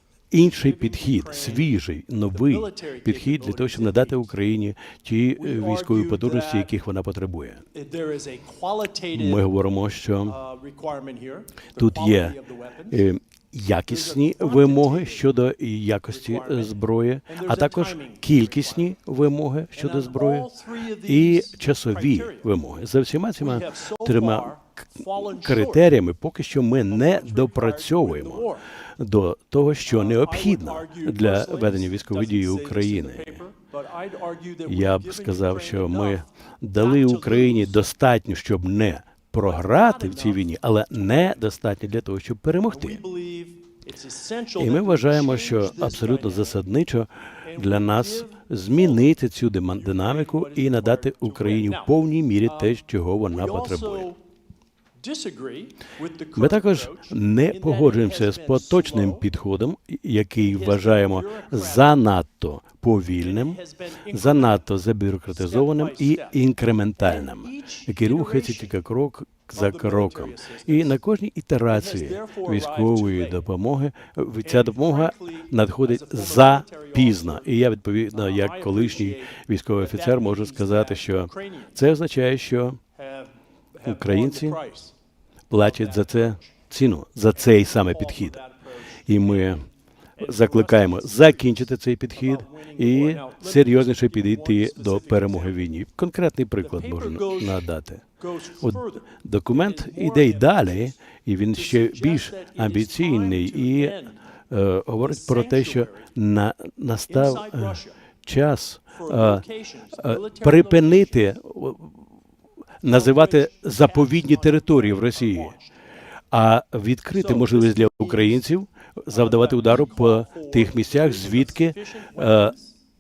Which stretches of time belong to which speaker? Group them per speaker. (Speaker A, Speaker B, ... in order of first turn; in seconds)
Speaker A: 0.3-7.6, 9.1-10.4, 11.8-12.4, 12.9-20.5, 21.1-33.4, 34.7-43.0, 44.6-54.1, 56.4-82.8, 83.8-84.6, 85.5-88.4, 89.1-89.6, 90.2-98.0, 98.6-112.0, 112.8-115.5, 116.3-122.5
Speaker B: 0.4-1.8, 2.3-4.3, 5.3-6.7, 7.7-9.4, 10.3-13.0, 13.9-15.3, 16.1-18.9, 19.7-22.5, 23.4-25.9, 26.9-28.7, 29.8-37.9, 39.4-41.4, 42.7-46.7, 47.4-49.1, 49.7-54.2, 55.0-59.2, 60.4-62.0, 63.2-64.7, 65.3-66.4, 67.0-68.8, 69.5-71.0, 71.7-73.4, 74.4-81.8, 82.9-84.9, 85.5-86.6, 87.3-89.6, 90.2-95.7, 96.6-101.0, 101.5-104.2, 105.0-106.1, 107.1-108.0, 108.9-111.3, 112.8-115.7, 117.1-118.5, 119.1-122.8